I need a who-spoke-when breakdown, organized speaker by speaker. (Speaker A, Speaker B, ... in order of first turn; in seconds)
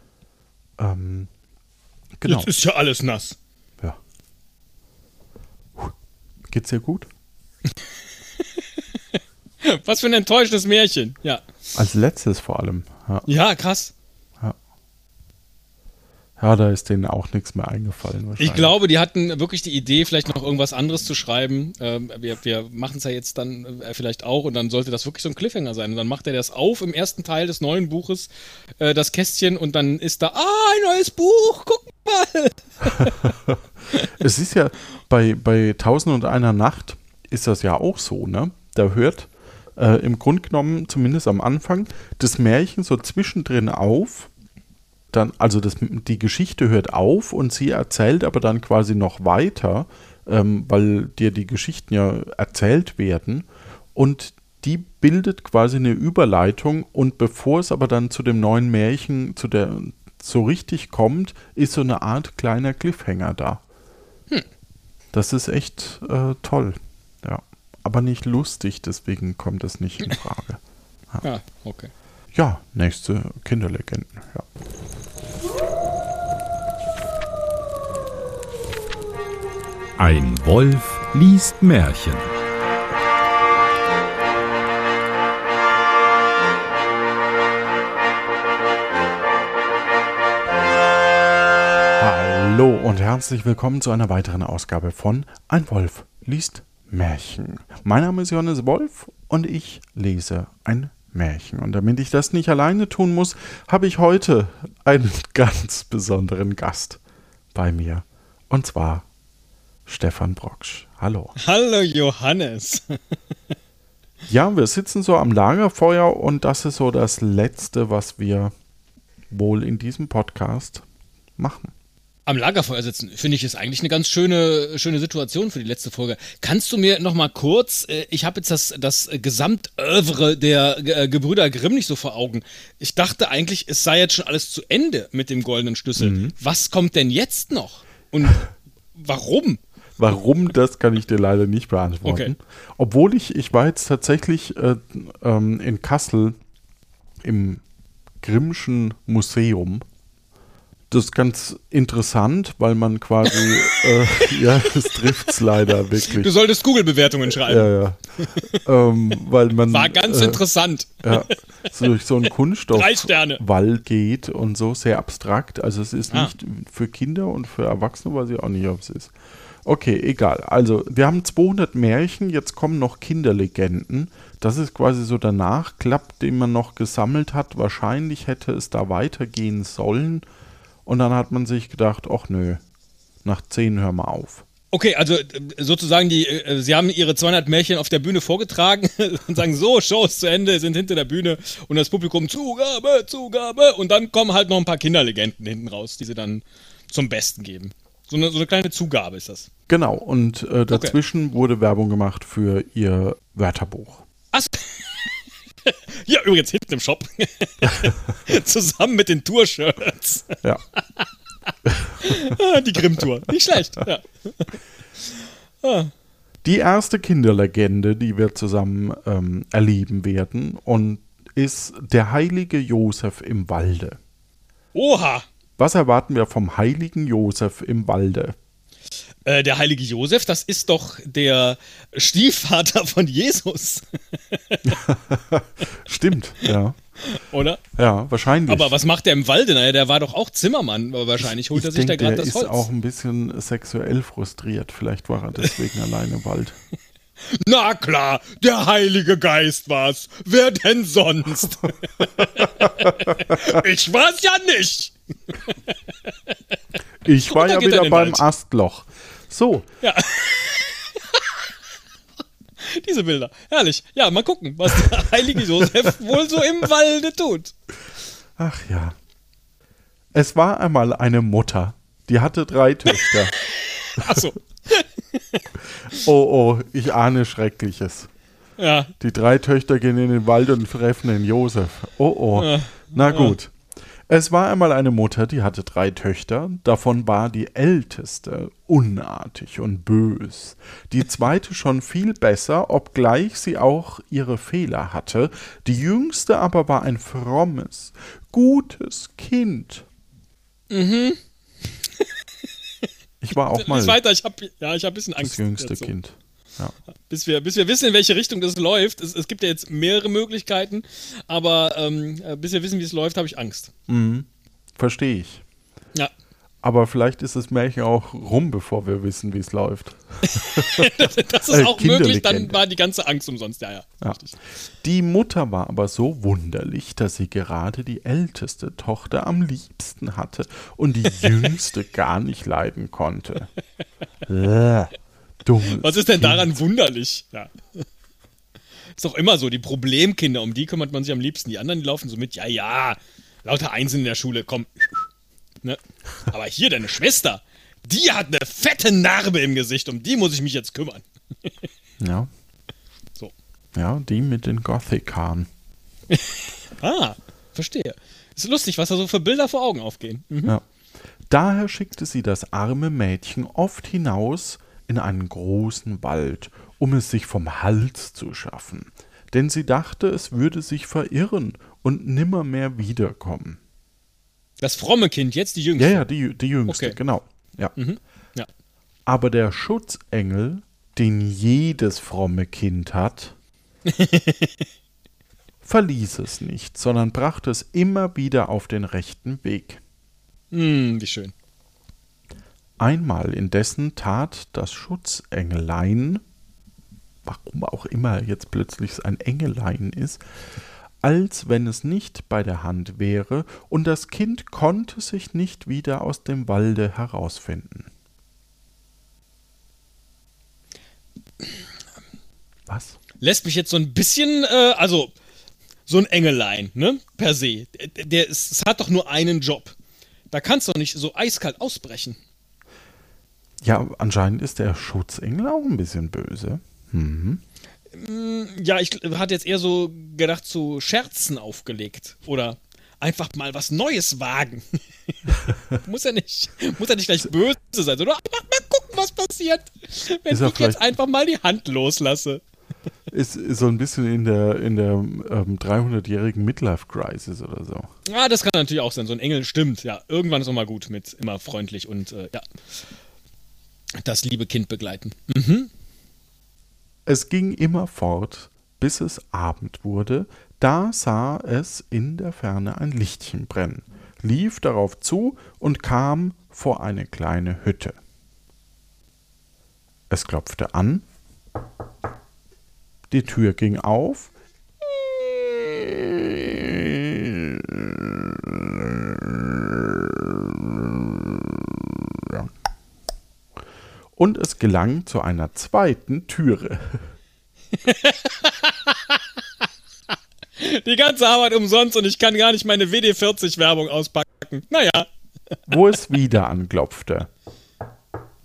Speaker A: 0.8-1.3, 2.2-2.5, 6.5-7.1, 11.7-13.3, 16.4-18.7, 34.1-44.3, 45.1-63.6, 65.1-70.6, 72.3-74.4, 92.0-107.0, 107.5-109.0, 109.8-111.3, 114.3-118.5, 119.3-120.8, 121.4-121.7, 136.0-136.3, 140.0-146.4, 147.2-147.6, 148.2-149.8, 150.9-156.3, 157.3-160.4, 161.0-169.1, 169.6-180.2, 180.8-182.6, 183.2-184.4, 199.7-204.0, 211.7-212.3, 216.4-224.0, 225.6-228.3, 234.6-236.8, 237.8-238.7, 241.5-246.6, 252.5-253.5, 257.0-259.7, 268.4-268.9, 270.1-273.4, 275.8-278.1, 279.0-283.5, 284.1-299.9, 303.2-304.0, 305.2-306.7, 313.9-314.3, 314.8-315.4, 316.6-322.6, 324.8-333.5, 334.3-336.6, 352.0-352.3, 353.7-355.5, 361.3-373.6, 375.8-377.7, 379.1-383.3, 385.6-389.8, 392.8-396.2, 397.2-400.2, 401.0-407.9, 412.7-413.0, 423.6-427.4, 440.3-440.8, 443.1-447.9, 457.1-468.0, 470.1-471.0, 473.1-474.3, 474.9-482.5, 484.1-487.1, 495.7-497.3
Speaker B: 2.2-3.4, 8.4-11.5, 13.2-13.9, 18.4-33.3, 71.2-71.9, 111.3-113.0, 122.2-139.6, 142.0-142.3, 153.2-158.6, 159.7-161.3, 162.7-163.4, 184.7-199.5, 200.7-200.9, 204.3-211.1, 212.0-215.9, 224.7-225.3, 229.2-234.8, 236.4-237.7, 238.5-242.7, 247.2-256.3, 257.3-258.2, 259.8-261.5, 262.6-267.5, 273.0-276.0, 278.6-278.9, 282.4-283.4, 300.7-302.8, 303.4-305.9, 307.1-313.7, 320.4-324.3, 331.2-331.5, 335.7-337.8, 338.9-345.1, 345.6-351.5, 356.1-360.6, 374.6-376.1, 376.7-377.0, 377.8-378.5, 383.9-384.7, 390.5-391.3, 413.2-415.1, 415.9-419.7, 420.3-422.2, 427.9-442.4, 448.1-452.5, 454.0-455.7, 487.8-489.4, 490.1-495.1
Speaker C: 80.0-82.3